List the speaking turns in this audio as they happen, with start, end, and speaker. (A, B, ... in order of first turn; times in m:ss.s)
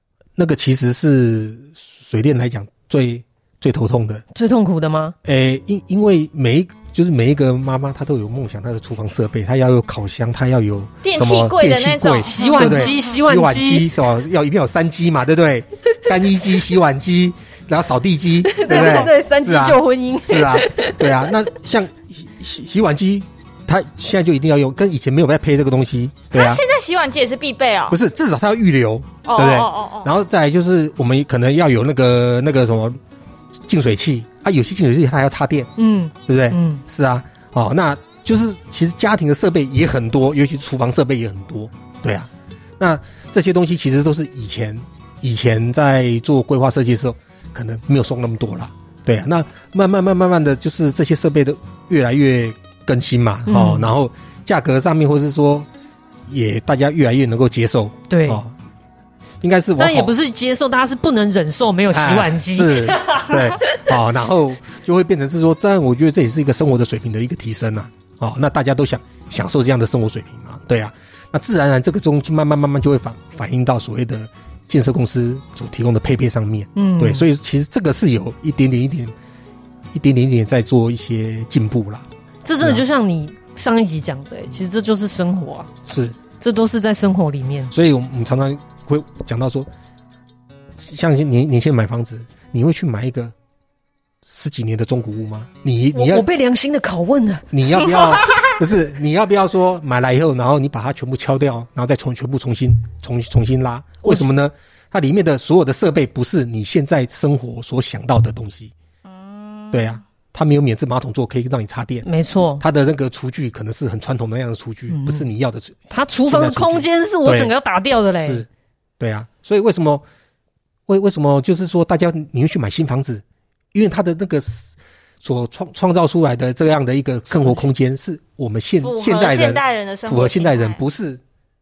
0:00.4-0:04.2 A
0:04.3-0:05.1 B
0:05.2-0:26.6 A
0:11.0-0:13.1 C
0:12.3-0:13.9 B
0:18.4-0:21.3 B
0:26.3-0:28.0 C
0:27.9-0:33.0 A
0:29.2-0:30.1 C
0:33.7-0:35.7 A
0:35.8-0:36.8 B
0:36.3-0:55.7 A
0:53.5-0:53.9 B
0:56.2-0:58.6 A
0:58.1-0:58.4 B
0:59.4-1:00.1 A
0:59.8-1:03.9 B
1:01.9-1:19.1 A
1:16.8-1:17.3 B
1:19.9-1:22.1 A
1:22.4-1:25.7 B
1:22.6-1:22.8 A
1:25.9-1:26.2 A
1:26.4-1:27.7 B
1:27.7-1:29.7 A
1:30.8-1:33.3 A
1:34.2-1:36.3 A
1:35.9-1:38.2 B
1:37.5-1:48.7 A
1:49.0-1:50.0 C
1:49.7-1:52.1 A
1:52.0-1:52.6 B
1:52.6-1:57.5 A
1:54.9-1:55.3 B
1:55.9-1:58.4 B
1:58.1-1:58.5 A
1:59.0-2:00.0 A
2:00.9-2:03.2 A
2:03.7-2:11.2 A
2:07.3-2:07.7 B
2:08.8-2:10.8 C